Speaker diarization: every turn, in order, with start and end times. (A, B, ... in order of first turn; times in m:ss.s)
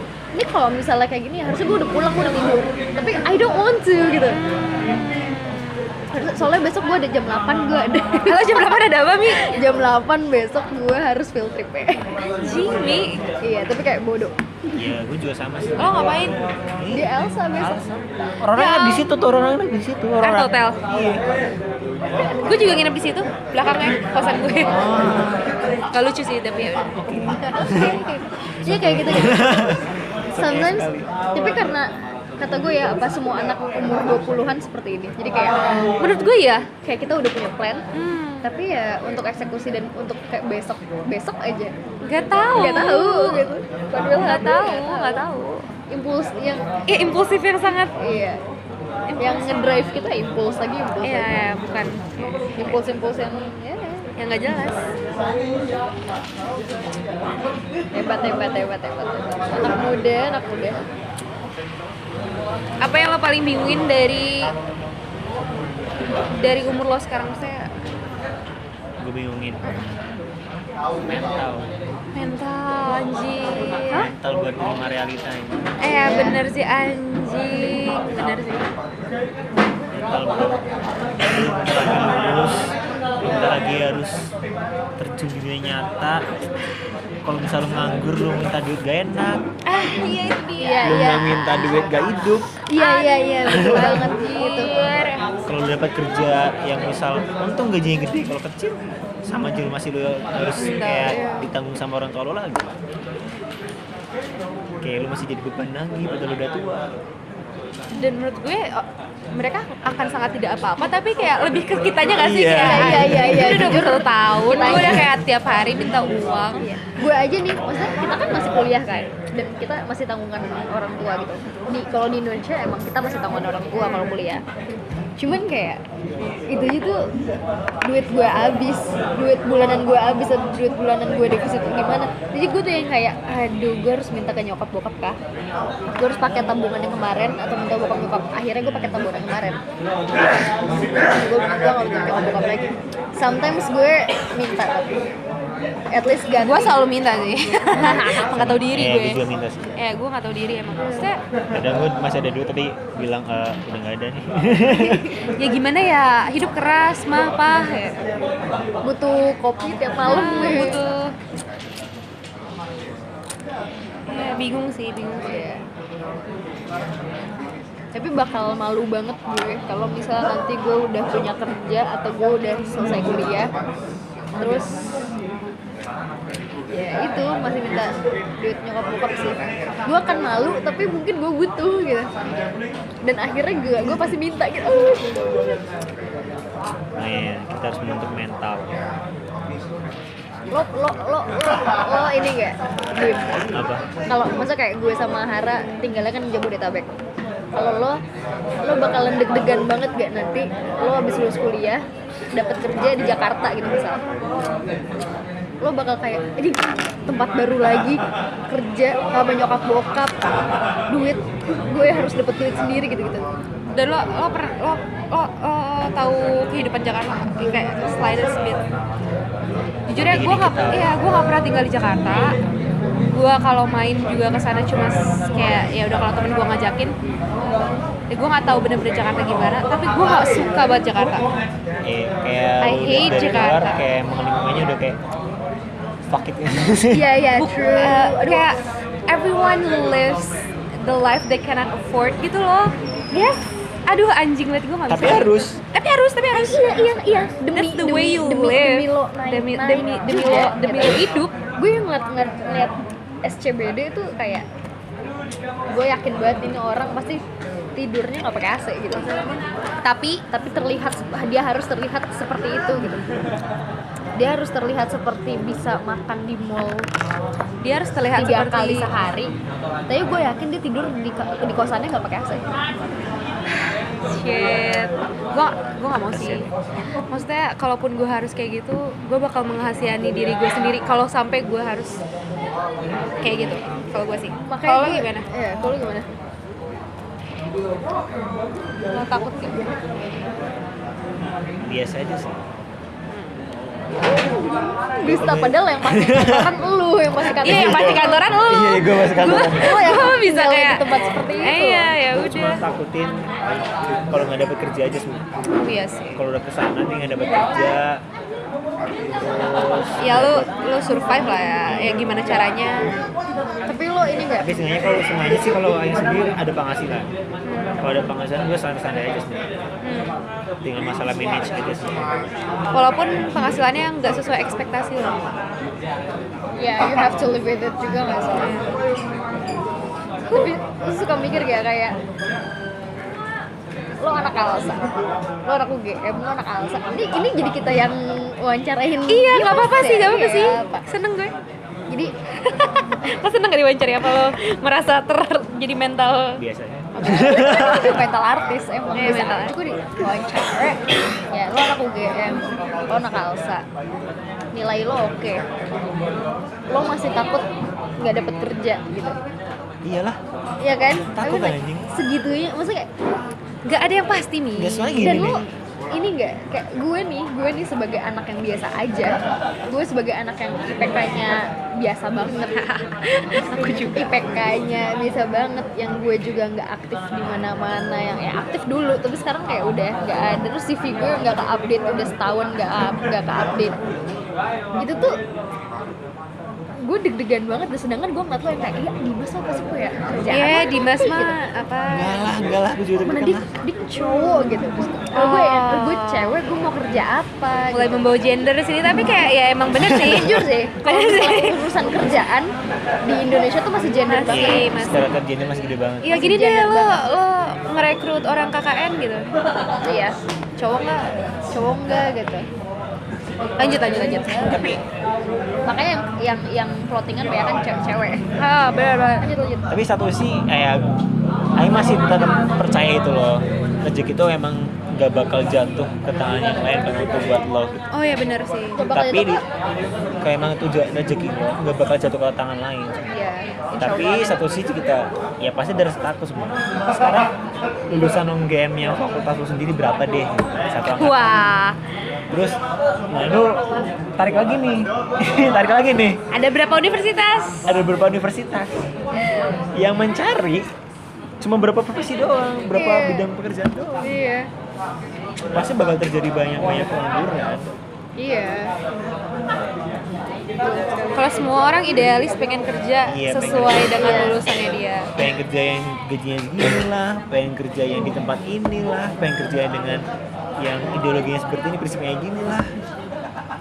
0:00.3-0:04.4 A
0:04.3-0:05.9 B
0:06.1-0:12.1 A
0:08.2-0:09.6 B
0:12.4-0:13.2 B
0:13.4-0:14.8 A
0:14.8-0:21.2 C
0:15.8-0:16.4 B
0:16.9-0:18.3 A
0:18.5-0:19.1 B
0:20.2-0:20.8 B
0:22.2-0:24.8 B
0:24.7-0:25.5 C
0:25.9-0:27.0 B
0:27.0-0:28.0 C
0:27.5-0:28.1 A
0:27.8-0:28.1 B
0:28.6-0:29.7 A
0:28.6-0:31.1 C
0:30.4-0:35.6 A
0:36.0-0:36.7 B
0:36.8-0:37.8 A
0:37.9-0:38.5 B
0:38.4-0:41.7 A
0:42.0-0:43.5 B
0:42.5-0:45.2 A
0:44.2-0:45.7 B
0:45.9-0:46.7 A
0:46.9-0:48.0 B
0:48.0-0:48.4 A
0:49.1-0:50.0 B
0:49.2-0:51.3 A
0:51.0-0:52.8 B
0:52.6-0:54.1 A
0:54.2-0:54.8 B
0:57.9-1:00.8 A
1:02.8-1:04.5 B
1:06.3-1:07.7 B
1:09.0-1:09.8 C
1:11.0-1:11.7 C
1:12.2-1:14.1 B
1:13.9-1:15.7 C
1:15.8-1:18.7 B
1:15.9-1:16.4 A
1:19.9-1:20.6 C
1:21.2-1:24.3 C
1:25.0-1:26.2 C
1:27.2-1:29.4 C
1:29.7-1:30.9 B
1:30.6-1:31.6 A
1:30.8-1:32.5 C
1:32.7-1:34.7 A
1:32.8-1:35.2 B
1:33.5-1:34.0 C
1:35.5-1:42.7 C
1:40.6-1:41.4 B
1:41.2-1:41.4 A
1:44.8-1:47.0 C
1:47.9-1:56.7 B
1:52.2-1:53.8 C
1:52.6-1:55.1 A
1:56.6-2:04.4 A
2:03.8-2:04.1 B
2:05.2-2:05.8 A
2:06.5-2:07.0 A
2:07.8-2:15.2 A
2:16.0-2:19.6 A
2:18.6-2:19.0 C
2:21.0-2:25.0 A
2:25.9-2:26.7 A
2:26.4-2:29.2 B
2:27.8-2:28.2 A
2:28.3-2:29.8 C
2:29.8-2:31.2 B
2:31.5-2:35.1 C
2:34.7-2:38.0 B
2:38.8-2:40.8 A
2:40.0-2:41.2 B
2:44.1-2:45.5 B
2:45.2-2:45.6 A
2:47.9-2:53.5 A
2:54.4-2:54.9 A
2:56.7-3:02.1 A
3:03.0-3:05.6 A
3:07.0-3:08.8 C
3:10.5-3:13.5 A
3:13.5-3:13.9 C
3:14.1-3:17.0 A
3:17.5-3:18.0 A
3:18.6-3:24.0 A
3:25.6-3:30.2 A
3:30.9-3:33.2 A
3:33.7-3:38.6 B
3:39.9-3:42.3 B
3:40.0-3:40.9 C
3:43.1-3:46.9 B
3:48.1-3:51.3 B
3:51.8-3:55.0 C
3:52.6-3:53.8 B
3:56.1-3:57.1 C
3:56.9-3:58.5 A
3:57.4-4:06.8 B
4:04.9-4:05.6 C
4:06.3-4:11.0 A
4:07.5-4:11.4 B
4:11.6-4:14.4 A
4:15.7-4:17.2 A
4:17.8-4:19.1 A
4:19.8-4:20.2 B
4:20.3-4:23.0 A
4:24.2-4:26.9 A
4:27.6-4:28.9 B
4:28.1-4:29.3 A
4:29.9-4:32.4 A
4:34.0-4:36.5 B
4:36.1-4:36.6 C
4:37.1-4:42.0 B
4:43.2-4:45.3 B
4:44.5-4:46.1 A
4:48.9-4:49.7 B
4:51.6-4:52.4 C
4:53.1-4:53.4 B
4:54.0-4:58.2 A
4:55.0-4:56.5 C
4:57.4-4:59.8 C
4:57.4-5:02.6 B
4:59.2-5:01.9 A
5:02.1-5:05.2 C
5:05.6-5:06.2 B
5:06.2-5:08.0 C
5:09.1-5:10.5 C
5:10.0-5:13.0 B
5:11.7-5:12.4 C
5:13.7-5:14.5 A
5:14.4-5:17.1 C
5:17.4-5:17.8 B
5:17.8-5:19.5 C
5:19.8-5:20.2 B
5:20.6-5:22.2 C
5:22.7-5:25.2 B
5:26.6-5:28.6 A
5:28.4-5:28.7 B
5:30.3-5:32.0 A
5:34.0-5:34.8 A
5:35.4-5:40.8 A
5:39.1-5:41.3 B
5:42.4-5:46.4 B
5:46.4-5:48.0 C
5:47.0-5:47.8 B
5:47.1-5:53.6 A
5:48.9-5:49.6 B
5:54.5-5:55.4 A
5:56.7-5:57.5 A
5:58.0-5:59.2 A
5:59.8-6:00.2 C
6:00.6-6:02.9 A
6:01.1-6:01.9 C
6:03.6-6:05.3 B
6:04.6-6:05.4 C
6:05.0-6:09.2 A
6:09.7-6:12.7 A
6:12.6-6:14.1 B
6:13.9-6:23.8 A
6:24.8-6:25.2 A
6:26.8-6:31.4 A
6:30.3-6:32.3 B
6:31.9-6:33.5 C
6:33.1-6:38.0 A
6:35.1-6:36.4 B
6:37.7-6:41.7 B
6:39.8-6:40.4 C
6:39.9-6:42.5 A
6:43.0-6:44.7 A
6:44.1-6:45.0 B
6:44.3-6:46.1 C
6:46.0-6:49.3 B
6:46.1-6:47.0 A
6:49.8-6:50.2 A
6:50.6-6:51.1 B
6:51.5-6:52.5 A
6:53.6-6:54.7 B
6:53.6-6:54.6 A
6:54.5-6:54.8 C
6:55.7-6:58.2 A
6:58.4-6:59.3 B
6:59.2-6:59.7 A
6:59.7-7:00.8 C
7:01.6-7:07.8 C
7:07.9-7:08.8 B
7:08.8-7:09.4 A
7:08.9-7:09.4 C
7:10.2-7:13.1 C
7:13.1-7:14.4 A
7:13.8-7:17.3 C
7:17.9-7:21.4 C
7:21.0-7:21.8 B
7:22.3-7:22.6 C
7:23.1-7:26.2 C
7:26.3-7:27.8 B
7:27.7-7:28.9 C
7:29.7-7:30.7 C
7:31.4-7:34.1 C
7:32.7-7:33.3 A
7:34.0-7:34.5 A
7:35.5-7:37.7 C
7:38.2-7:38.7 A
7:40.6-7:41.3 A
7:41.1-7:45.1 B
7:43.1-7:44.1 C
7:43.9-7:44.4 A
7:45.2-7:50.0 C
7:50.6-7:52.7 C